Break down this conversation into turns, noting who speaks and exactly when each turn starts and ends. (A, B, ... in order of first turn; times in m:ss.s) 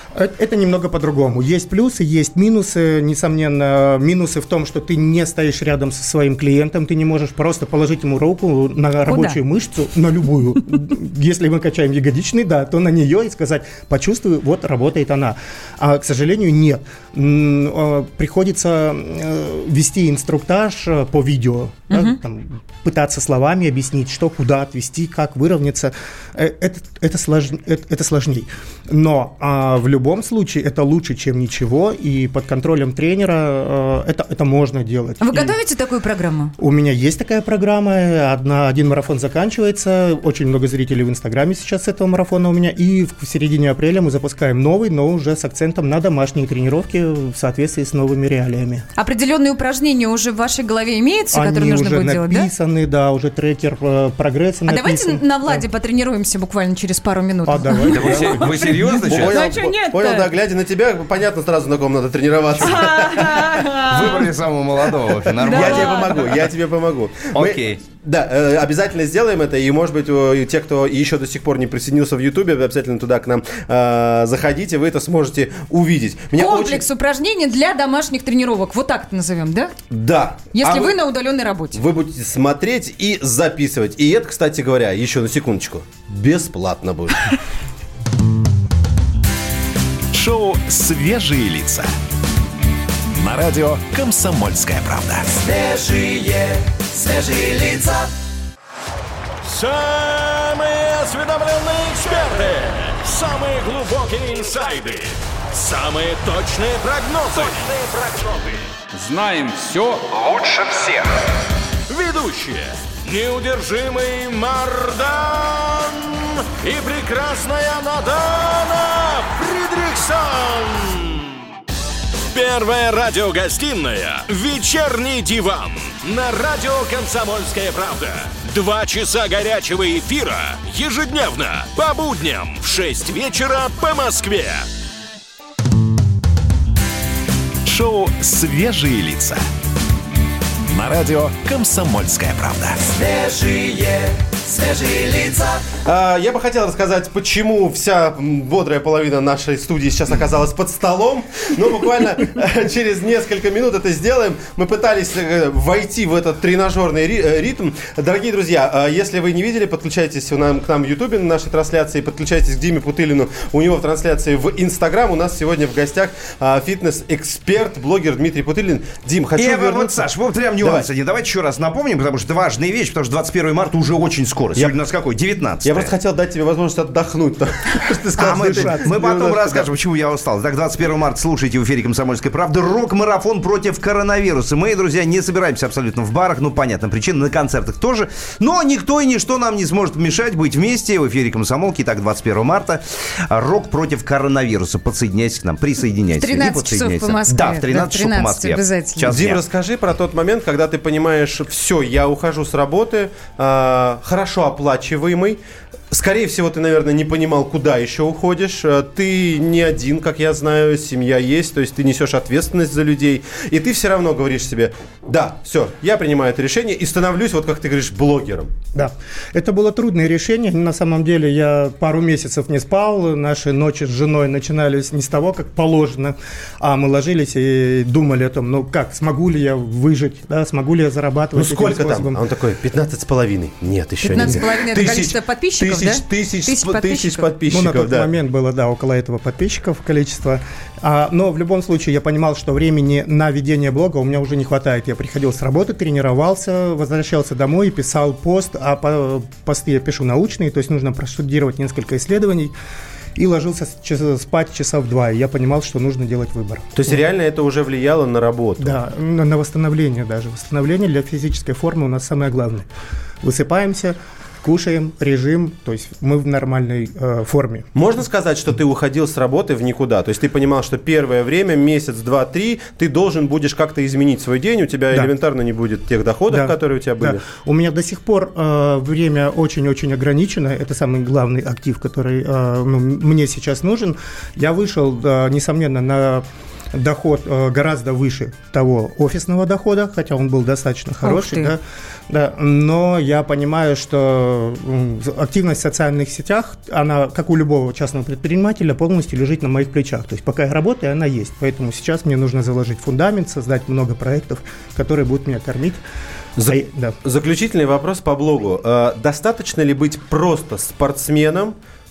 0:00.1-0:35.6 A
0:09.1-0:09.4 B
0:21.9-0:22.2 B
0:35.2-0:36.5 B
0:36.6-0:48.8 A
0:49.0-0:52.5 B
0:51.3-0:55.6 A
0:54.7-1:00.3 B
0:57.4-0:58.3 A
0:57.9-0:59.4 C
0:59.1-1:03.7 D
1:02.6-1:04.2 B
1:03.8-1:06.4 C
1:05.3-1:16.8 D
1:05.4-1:06.1 B
1:07.3-1:07.8 C
1:16.3-1:19.7 B
1:19.9-1:21.0 D
1:20.5-1:21.8 B
1:21.7-1:27.3 D
1:30.1-1:31.9 E
1:33.1-1:35.4 E
1:35.5-1:36.4 F
1:37.2-1:37.9 F
1:39.4-1:51.2 G
1:51.9-2:01.3 G
2:02.3-2:14.7 G
2:17.6-2:19.4 E
2:20.6-2:22.9 E
2:23.0-2:24.0 F
2:24.7-2:25.4 F
2:25.8-2:50.9 D
2:49.4-2:55.9 C
2:55.6-2:59.6 D
2:58.2-3:19.4 C
2:58.2-2:59.4 A
3:16.2-3:19.1 B
3:19.1-3:38.6 D
3:38.7-3:52.2 A
3:51.3-3:58.1 D
3:54.0-3:57.3 B
3:57.5-4:12.5 A
4:13.1-4:17.0 A
4:16.7-4:18.8 D
4:18.6-4:22.7 A
4:23.2-4:27.7 A
4:27.7-4:37.2 D
4:36.3-5:05.8 A
4:51.0-4:51.5 B
5:06.4-5:11.5 D
5:06.4-5:07.0 A